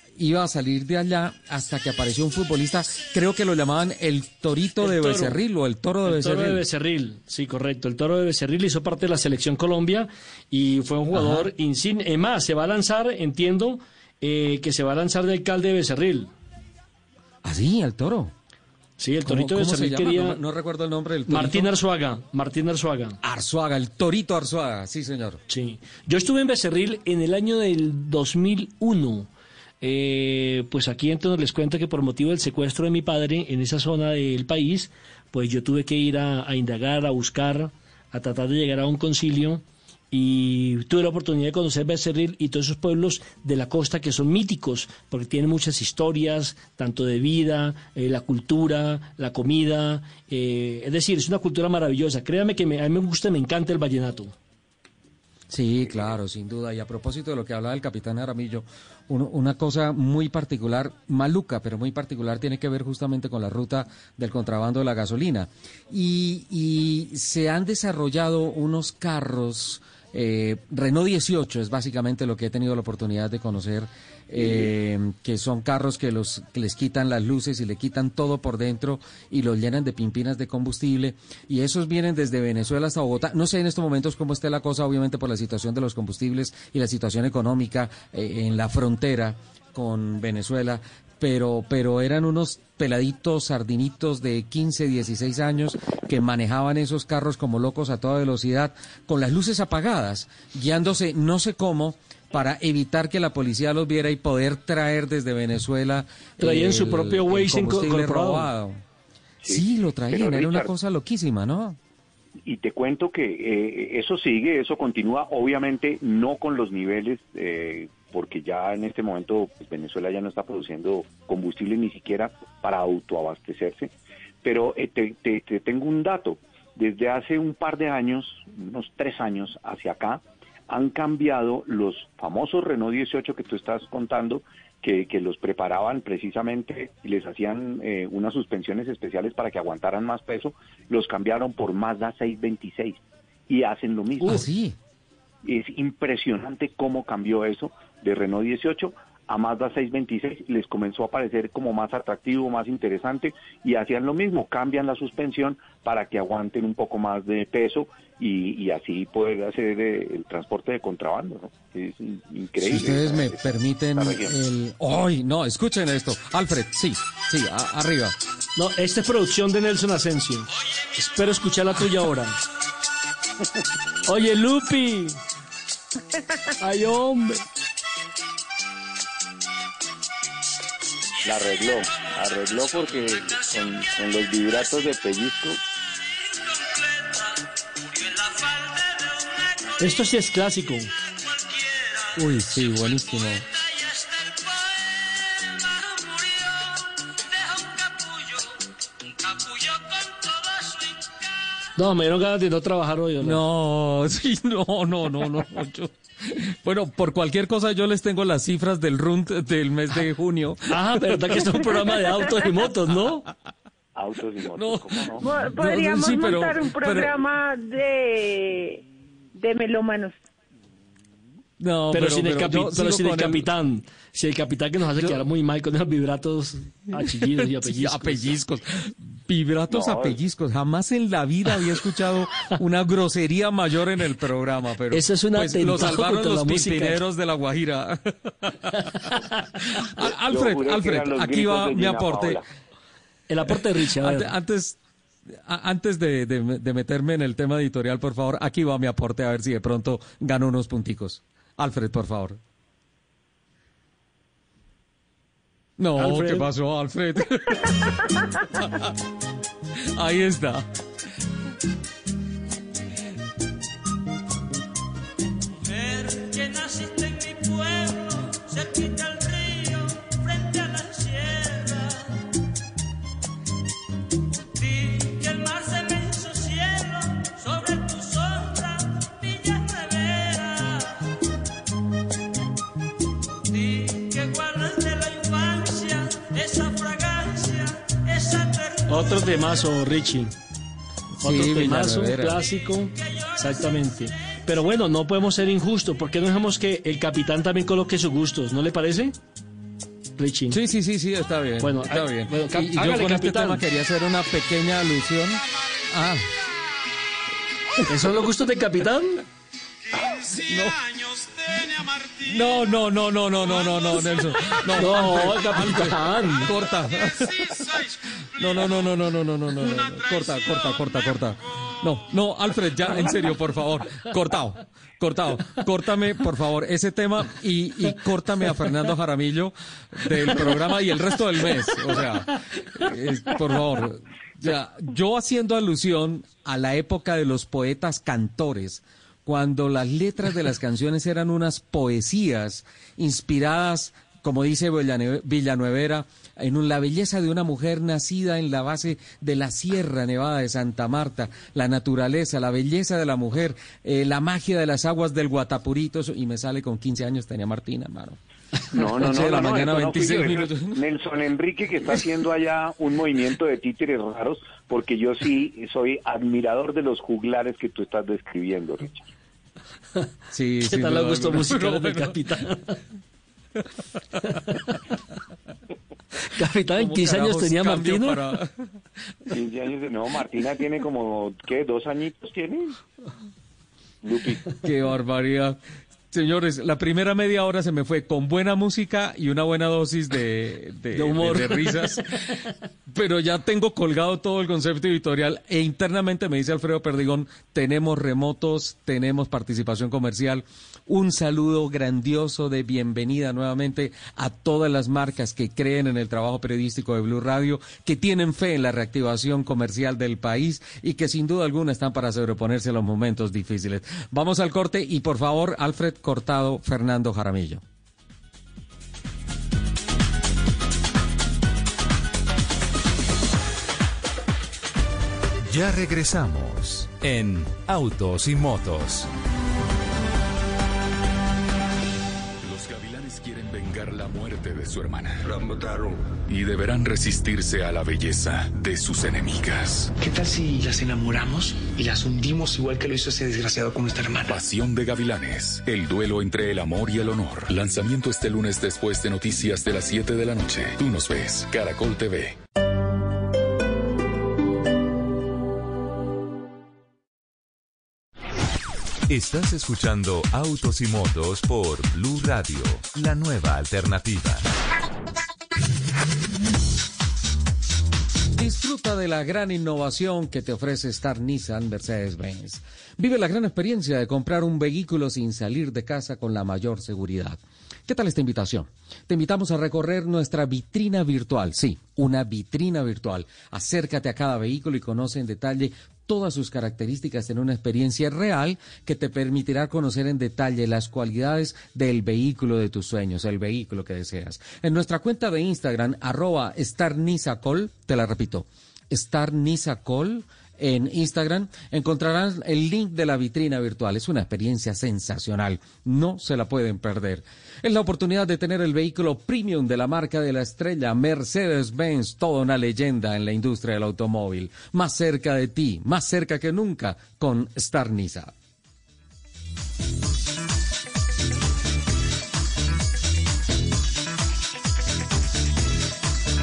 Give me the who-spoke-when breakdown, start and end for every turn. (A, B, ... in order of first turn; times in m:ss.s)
0:00.2-0:06.6 A
0:04.8-0:05.4 B
0:06.0-0:16.3 B
0:11.1-0:11.5 A
0:17.4-0:18.3 A
0:19.0-0:20.4 B
0:19.2-0:21.7 A
0:21.3-0:23.2 B
0:23.2-0:25.4 A
0:25.5-0:29.3 B
0:29.8-0:54.3 B
0:55.5-1:48.8 A
1:46.4-1:48.5 B
1:49.4-1:50.7 C
1:49.5-1:51.8 A
1:52.4-2:03.9 C
2:04.4-2:24.5 C
2:24.2-2:24.7 A
2:25.4-2:44.4 C
2:42.6-2:48.1 A
2:48.6-2:52.4 B
2:54.0-2:55.2 B
2:56.6-2:57.4 B
3:01.2-3:05.6 C
3:09.8-3:10.9 B
3:12.2-3:13.4 A
3:21.8-3:23.4 B
3:23.2-3:31.8 A
3:30.7-3:33.2 B
3:33.9-3:35.2 C
3:34.6-3:37.1 A
3:35.2-3:38.8 D
3:39.3-3:40.1 D
3:41.6-3:43.5 A
3:41.9-3:48.4 B
3:45.0-3:45.2 A
3:47.0-3:59.1 A
3:49.7-3:50.2 C
3:54.9-3:57.0 B
3:59.7-4:02.4 A
4:00.0-4:02.4 C
4:03.3-4:04.3 B
4:03.5-4:04.8 A
4:05.3-4:12.4 A
4:15.8-4:18.9 A
4:16.0-4:16.5 B
4:20.0-4:20.6 A
4:48.9-4:50.3 B
4:51.2-4:52.4 A
4:51.2-4:59.2 B
5:00.2-5:00.6 B
5:00.5-5:06.2 A
5:01.6-5:03.6 B
5:07.9-5:09.2 B
5:10.4-5:10.8 A
5:12.2-5:17.6 A
5:14.7-5:16.5 B
5:18.3-5:58.2 A
5:58.7-6:09.0 C
5:58.7-6:00.8 A
6:10.3-6:12.2 A
6:10.6-6:12.8 B
6:16.3-6:18.3 B
6:16.8-6:18.7 A
6:19.3-6:22.8 C
6:24.0-6:24.4 C
6:24.6-6:25.6 A
6:26.1-6:32.3 A
6:30.9-6:32.0 B
6:32.9-6:57.6 A
7:05.4-7:09.1 E
7:12.4-7:19.9 F
7:20.0-7:24.4 G
7:24.2-7:32.4 F
7:39.1-7:44.4 E
7:48.4-8:38.3 A